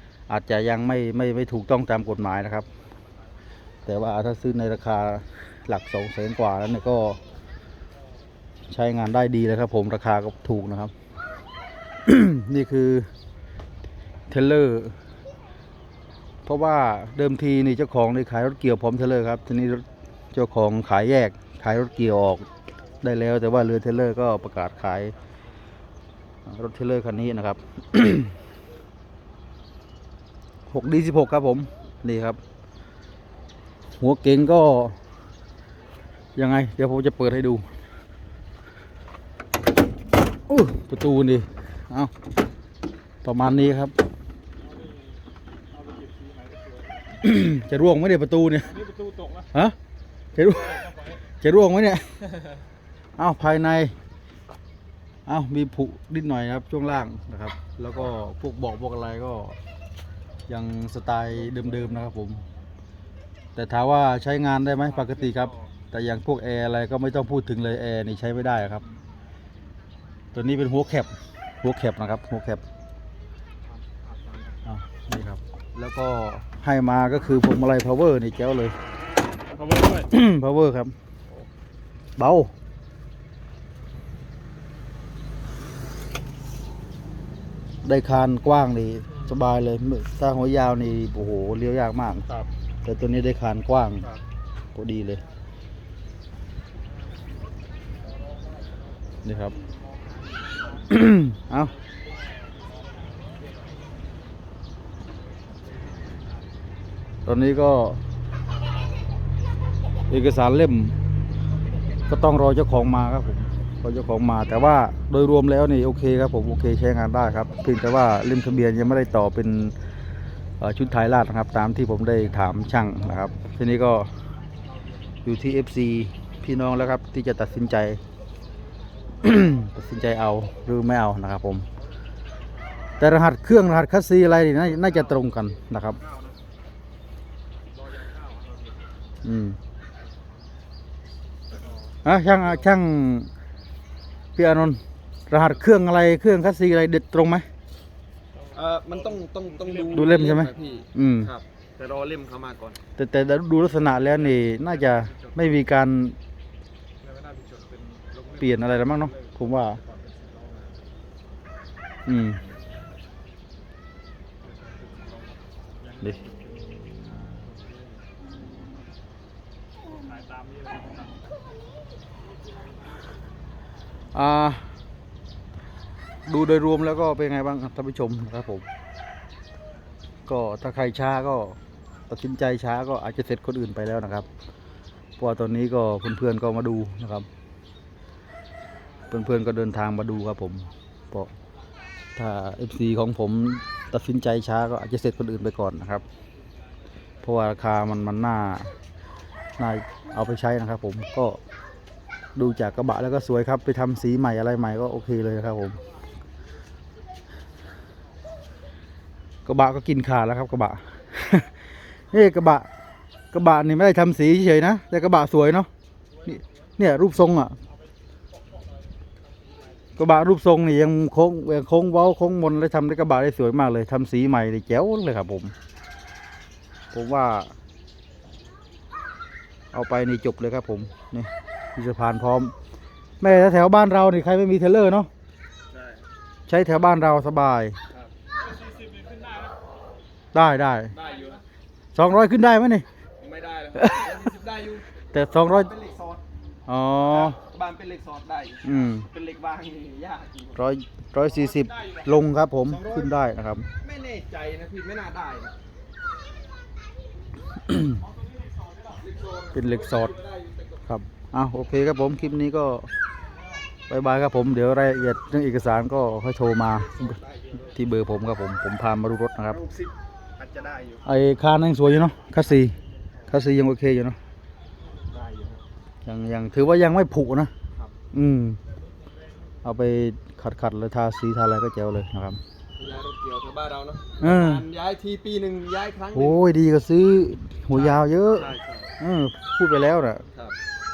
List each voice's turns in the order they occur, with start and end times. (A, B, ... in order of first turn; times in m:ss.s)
0:00.3-0:02.7 A
0:03.9-0:07.2 A
0:08.7-0:10.9 A
0:12.0-0:13.1 A
0:14.3-0:15.0 A
0:16.4-0:22.5 A
0:23.0-0:25.2 A
0:26.5-0:28.3 A
0:30.7-0:32.4 A
0:34.0-0:35.0 A
0:36.4-0:37.7 A
0:40.5-0:42.1 A
0:43.2-0:43.9 A
0:44.6-0:45.2 B
0:45.7-0:46.9 B
0:47.2-0:48.8 A
0:48.7-0:49.5 B
0:50.4-0:52.2 A
0:53.2-0:53.9 A
0:55.3-0:59.6 A
1:00.5-1:02.4 A
1:03.6-1:08.8 A
1:05.0-1:05.6 B
1:10.3-1:12.6 A
1:13.9-1:14.5 B
1:14.6-1:18.8 A
1:19.5-1:20.1 B
1:20.0-1:20.9 A
1:22.2-1:22.5 A
1:27.8-1:32.3 A
1:32.8-1:34.1 A
1:34.8-1:35.2 A
1:39.2-1:39.6 A
1:40.8-1:41.8 A
1:47.3-1:48.0 A
1:50.1-1:51.0 A
1:52.1-1:59.8 A
2:00.6-2:04.1 A
2:05.2-2:08.0 A
2:09.2-2:11.6 A
2:13.0-2:16.0 A
2:17.8-2:18.8 B
2:19.2-2:19.6 A
2:22.0-2:23.3 A
2:24.4-2:27.5 A
2:28.5-2:32.8 C
2:29.6-2:30.9 B
2:29.9-2:31.3 A
2:33.0-2:36.2 A
2:34.3-2:35.3 B
2:37.0-2:40.7 B
2:38.4-2:39.8 A
2:42.1-2:42.4 A
2:44.4-2:47.9 B
2:50.0-2:51.2 B
2:54.1-2:54.7 A
2:56.3-2:58.7 A
3:00.3-3:01.6 A
3:02.1-3:04.3 A
3:05.2-3:07.3 A
3:09.1-3:11.3 A
3:12.2-3:16.0 A
3:17.2-3:18.7 A
3:19.6-3:21.4 A
3:22.4-3:25.8 A
3:29.5-3:31.5 A
3:32.1-3:32.7 A
3:33.3-3:35.7 A
3:36.3-3:37.6 A
3:40.0-3:45.5 A
3:46.9-3:47.6 A
3:49.7-3:52.5 A
3:53.2-3:55.1 A
3:55.7-3:56.1 C
3:56.5-3:57.8 A
3:58.5-3:59.6 B
4:00.3-4:01.0 A
4:00.9-4:01.4 C
4:01.9-4:02.9 A
4:03.2-4:06.2 C
4:05.1-4:05.7 A
4:06.7-4:07.4 A
4:07.0-4:10.6 C
4:08.6-4:09.1 A
4:10.6-4:13.7 A
4:12.7-4:13.1 C
4:13.8-4:15.6 C
4:17.7-4:18.0 A
4:18.9-4:20.8 C
4:19.5-4:20.2 A
4:20.9-4:22.9 A
4:23.9-4:29.6 A
4:26.7-4:27.8 C
4:29.5-4:31.0 C
4:31.0-4:32.8 A
4:33.3-4:34.2 A
4:35.1-4:35.6 C
4:36.1-4:37.5 A
4:38.1-4:38.6 A
4:39.6-4:42.4 A
4:42.8-4:46.4 C
4:44.2-4:44.7 A
4:46.1-4:50.2 A
4:47.7-4:48.9 C